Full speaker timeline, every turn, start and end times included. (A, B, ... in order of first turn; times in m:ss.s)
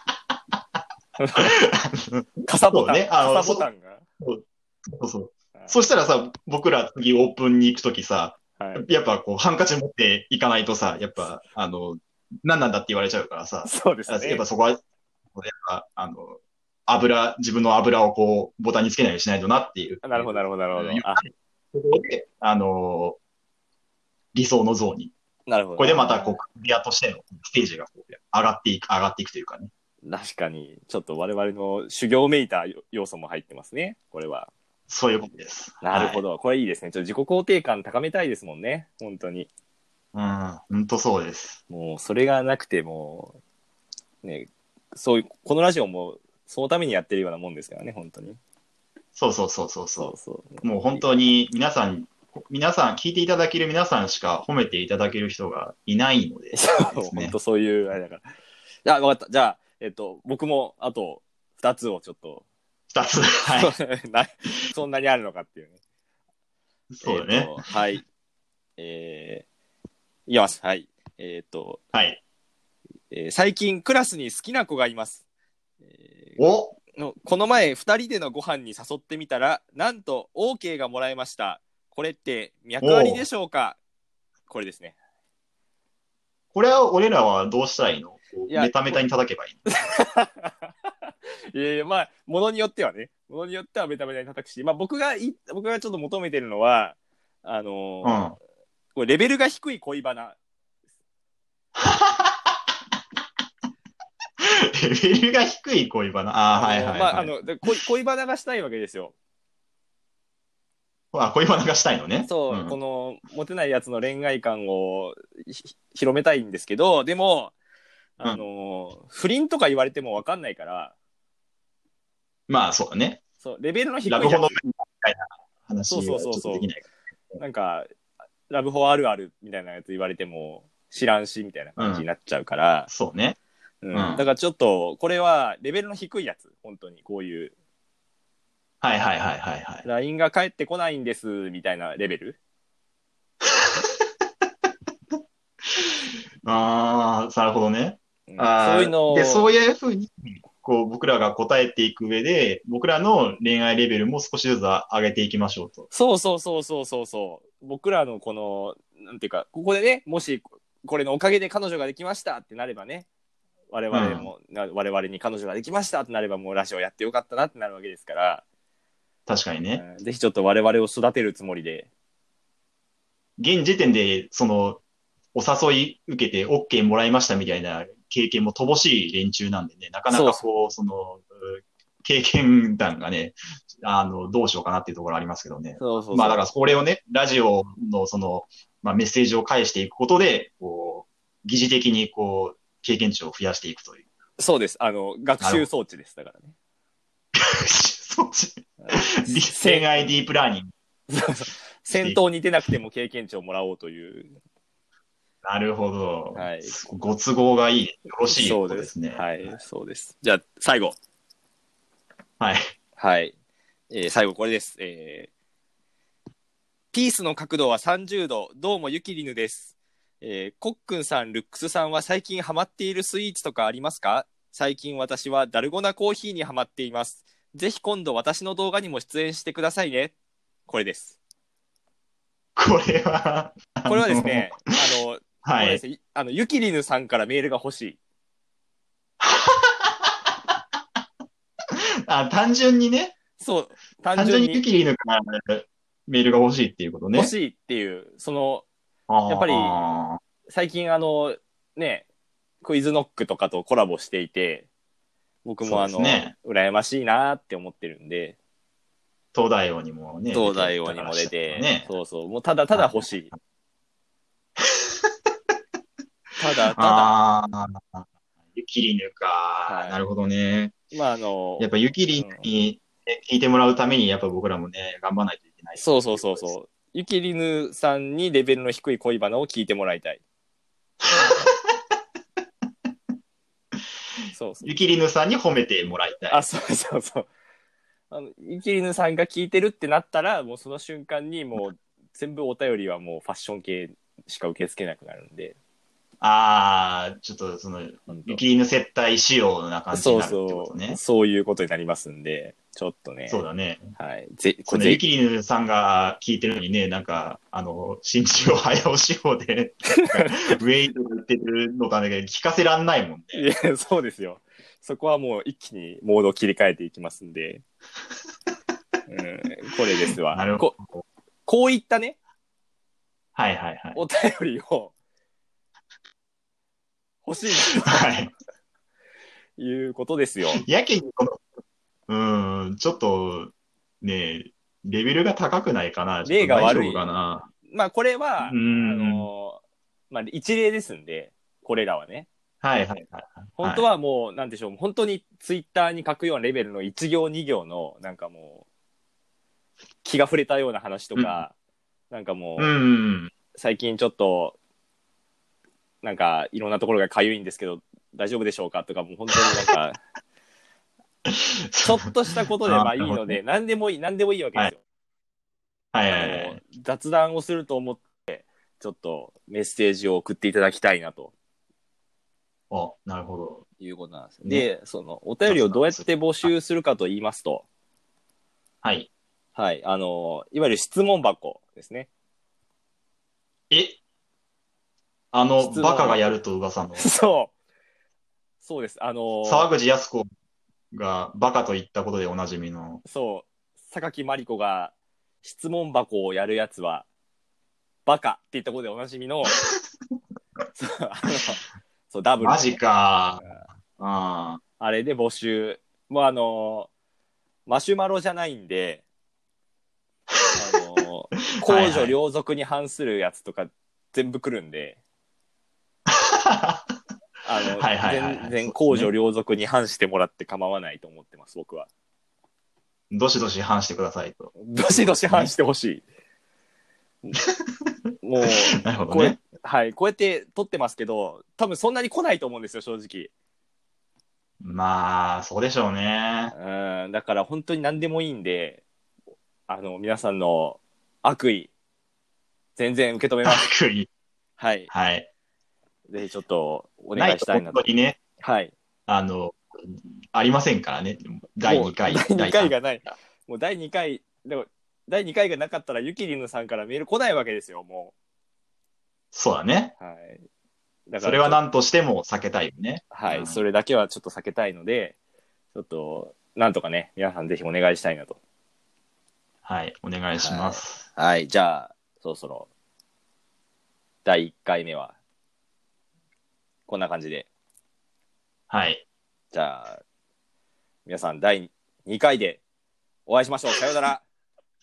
0:01.2-0:01.6 A
0:01.3-0:03.7 B
0:02.4-0:04.0 A
0:04.2-0:14.8 B
0:08.6-0:08.8 A
0:13.6-0:14.4 A
0:15.3-0:23.2 B
0:20.0-0:21.2 A
0:24.3-0:25.1 B
0:25.5-0:26.4 A
0:25.8-0:29.7 B
0:30.0-0:34.5 A
0:34.9-0:36.2 B
0:35.8-0:39.5 A
0:40.1-0:41.6 B
0:41.7-0:43.4 A
0:44.2-0:48.4 A
0:49.1-0:57.4 B
0:50.0-0:51.0 A
0:56.5-0:58.2 A
0:58.8-1:02.4 A
1:02.9-1:03.7 B
1:03.5-1:05.8 A
1:06.9-1:07.6 B
1:07.0-1:08.0 A
1:08.8-1:09.4 A
1:10.3-1:11.8 A
1:11.9-1:12.2 B
1:13.1-1:15.2 A
1:15.9-1:16.4 A
1:16.4-1:16.8 B
1:17.0-1:23.8 A
1:22.8-1:23.2 B
1:24.5-1:25.0 A
1:26.5-1:29.6 B
1:28.5-1:29.0 A
1:29.7-1:38.2 A
1:38.0-1:38.4 B
1:38.9-1:40.4 A
1:41.8-1:42.6 B
1:44.4-1:47.7 B
1:46.5-1:49.1 A
1:51.1-1:52.8 B
1:52.2-1:57.5 A
1:58.2-2:00.9 A
2:02.5-2:03.2 B
2:03.4-2:04.6 A
2:04.0-2:07.4 B
2:05.9-2:06.7 A
2:07.4-2:07.9 A
2:08.5-2:12.9 A
2:11.8-2:12.0 B
2:12.9-2:13.4 B
2:13.8-2:17.5 A
2:13.9-2:14.2 B
2:18.8-2:19.8 B
2:19.8-2:22.4 A
2:23.5-2:23.9 B
2:25.7-2:35.8 B
2:28.3-2:29.5 A
2:35.9-2:43.1 A
2:43.7-2:48.4 A
2:43.9-2:44.3 B
2:49.3-2:49.8 B
2:49.8-2:51.9 A
2:53.4-2:54.8 B
2:55.3-3:14.0 B
3:00.1-3:00.5 A
3:05.8-3:06.5 A
3:14.4-3:16.5 A
3:15.4-3:15.6 B
3:17.3-3:20.7 B
3:18.8-3:20.1 A
3:21.1-3:24.3 A
3:21.9-3:22.2 B
3:25.4-3:29.3 B
3:26.3-3:26.8 A
3:28.3-3:31.0 A
3:33.0-3:33.3 A
3:33.9-3:35.3 A
3:36.9-3:50.1 A
3:50.7-3:51.2 A
3:52.6-3:54.6 B
3:53.9-3:58.0 A
3:55.4-3:55.8 B
3:59.2-4:00.3 B
4:01.7-4:03.2 B
4:03.4-4:04.6 A
4:04.1-4:07.3 B
4:07.1-4:08.6 A
4:09.1-4:10.2 B
4:09.2-4:09.8 A
4:10.5-4:12.0 A
4:12.6-4:14.7 A
4:15.4-4:18.4 A
4:15.6-4:16.3 B
4:19.3-4:21.9 B
4:20.3-4:23.3 A
4:22.7-4:23.3 B
4:24.6-4:25.1 B
4:26.4-4:27.1 A
4:26.7-4:30.8 B
4:29.6-4:30.0 A
4:30.9-4:32.5 A
4:31.6-4:36.5 B
4:35.8-4:40.2 A
4:41.1-4:41.6 B
4:44.3-4:44.7 A
4:44.6-4:46.5 B
4:46.3-4:47.3 A
4:48.1-4:55.6 A
4:56.2-5:01.0 B
4:58.1-4:58.4 A
4:59.9-5:03.4 A
5:03.3-5:03.9 B
5:04.0-5:05.0 A
5:04.7-5:13.5 B
5:10.0-5:10.4 A
5:13.3-5:17.6 A
5:19.1-5:20.8 A
5:20.3-5:21.0 B
5:21.5-5:22.2 A
5:23.3-5:24.0 B
5:23.9-5:24.9 A
5:27.2-5:28.2 A
5:27.8-5:28.3 B
5:29.6-5:30.6 A
5:30.5-5:31.4 B
5:32.1-5:37.5 B
5:36.2-5:37.1 A
5:37.6-5:42.3 A
5:38.4-5:39.3 B
5:42.6-5:43.9 B
5:43.6-5:48.6 A
5:50.0-5:51.5 A
5:52.1-5:52.8 A
5:52.6-5:53.3 B
5:53.5-5:54.6 A
5:56.0-6:00.0 A
6:01.2-6:02.0 B
6:01.8-6:04.8 A
6:02.6-6:03.4 B
6:05.9-6:06.6 B
6:06.1-6:11.3 A
6:12.7-6:13.6 B
6:13.8-6:17.6 A
6:15.5-6:16.5 B
6:18.8-6:19.1 B
6:19.6-6:22.1 A
6:23.7-6:24.0 B
6:25.3-6:27.1 B
6:25.6-6:26.3 A
6:27.0-6:27.5 A
6:28.6-6:29.7 A
6:29.4-6:30.3 B
6:30.9-6:33.0 B
6:33.0-6:37.1 A
6:38.0-6:39.6 A
6:40.8-6:42.8 A
6:42.4-6:43.4 B
6:44.0-6:44.6 B
6:44.8-6:46.9 A
6:47.7-6:49.0 A
6:50.5-6:55.0 A
6:51.6-6:52.2 B
6:56.1-6:56.8 B
6:57.4-7:01.9 A
6:57.8-6:59.1 B
7:03.1-7:05.5 B
7:04.6-7:06.0 A
7:08.2-7:13.3 A
7:08.4-7:09.4 B
7:14.6-7:16.5 B
7:16.5-7:18.8 A
7:19.7-7:21.7 A
7:22.8-7:23.7 A
7:23.4-7:24.1 B
7:24.6-7:24.9 A
7:24.9-7:25.2 B
7:26.1-7:28.7 A
7:27.1-7:28.2 B
7:29.1-7:32.8 B
7:31.6-7:38.1 A
7:39.3-7:39.9 B
7:40.0-7:40.4 A
7:41.1-7:41.6 A
7:41.2-7:43.6 B
7:43.1-7:45.2 A
7:45.7-7:48.4 A
7:49.6-7:51.0 B
7:50.3-7:52.7 A
7:54.2-7:55.1 A
7:56.9-7:57.5 A
7:58.7-7:59.0 B
7:59.5-8:00.0 A
8:01.0-8:02.6 A
8:03.3-8:04.2 A